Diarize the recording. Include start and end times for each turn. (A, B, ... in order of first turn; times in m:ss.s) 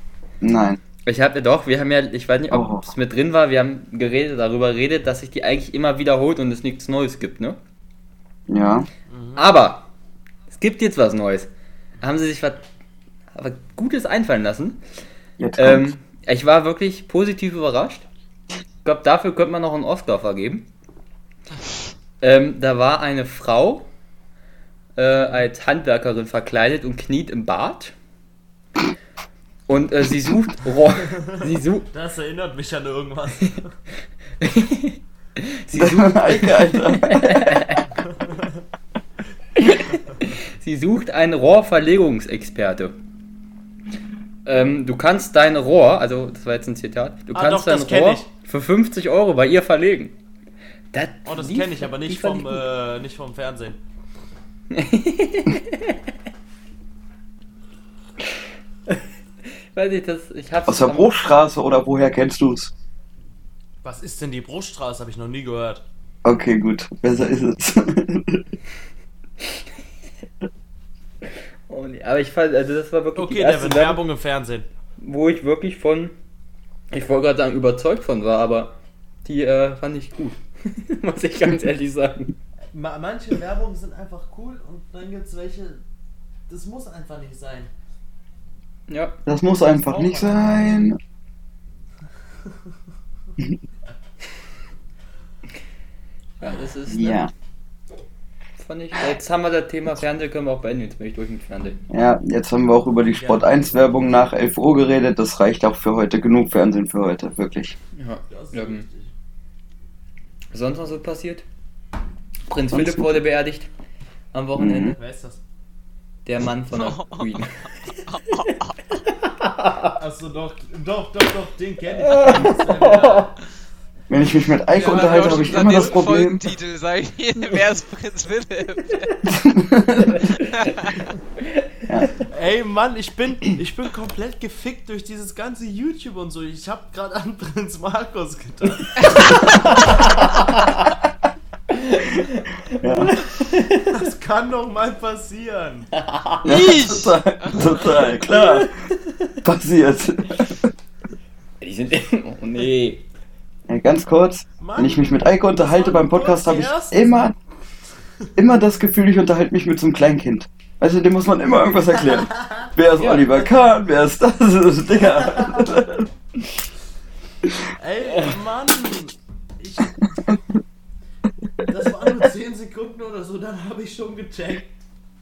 0:00.4-0:00.8 A
0:01.0-0:07.6 B
0:02.5-0:02.8 A
0:08.5-0:08.9 A
0:09.1-0:09.4 C
0:09.4-0:09.9 B
0:10.5-0:11.5 B
0:12.0-0:12.6 B
0:13.3-0:14.8 B
0:15.4-0:15.9 A
0:15.6-0:18.1 B
0:18.8-0:20.7 B
0:22.2-0:23.9 B
0:25.0-0:27.9 B
0:29.7-0:31.9 B
0:31.9-0:33.7 C
0:34.4-0:37.9 B
0:35.7-0:37.6 A
0:39.6-0:43.0 B
0:44.4-0:50.2 B
0:47.3-0:48.3 C
0:50.9-0:52.6 B
0:51.2-0:53.8 C
0:54.7-0:56.0 B
0:59.7-1:01.2 B
1:00.7-1:02.7 A
1:03.8-1:05.8 C
1:06.2-1:08.5 A
1:11.7-1:14.0 B
1:13.2-1:14.7 C
1:15.0-1:16.1 B
1:16.9-1:22.4 B
1:22.7-1:25.8 C
1:26.5-1:27.7 C
1:28.9-1:29.2 B
1:29.2-1:31.0 A
1:29.6-1:30.9 C
1:36.4-1:37.2 B
1:36.9-1:37.3 A
1:38.6-1:41.8 B
1:41.9-1:47.7 A
1:43.0-1:44.3 C
1:48.0-1:48.8 B
1:48.3-1:49.1 C
1:50.5-1:51.4 B
1:52.5-1:53.7 B
1:52.7-1:53.0 A
1:54.3-1:55.0 B
1:54.6-1:55.0 A
1:55.0-1:55.4 C
1:56.2-1:57.5 B
1:56.7-1:58.8 D
1:59.2-1:59.9 B
2:00.0-2:03.4 C
2:02.0-2:03.3 B
2:04.1-2:06.4 A
2:04.7-2:06.1 C
2:04.8-2:09.1 D
2:09.2-2:10.3 A
2:10.1-2:10.7 B
2:10.5-2:11.1 D
2:11.4-2:11.7 B
2:11.9-2:12.1 A
2:12.3-2:19.4 C
2:19.2-2:20.9 B
2:21.7-2:24.0 B
2:22.8-2:23.2 A
2:23.9-2:25.9 C
2:25.9-2:26.6 B
2:26.4-2:28.7 A
2:26.4-2:28.0 D
2:29.4-2:30.7 A
2:31.6-2:33.0 B
2:33.7-2:37.3 A
2:34.6-2:37.3 C
2:38.4-2:46.1 A
2:42.1-2:42.7 C
2:43.0-2:43.3 B
2:45.3-2:45.6 C
2:47.8-2:50.0 C
2:51.7-2:54.8 C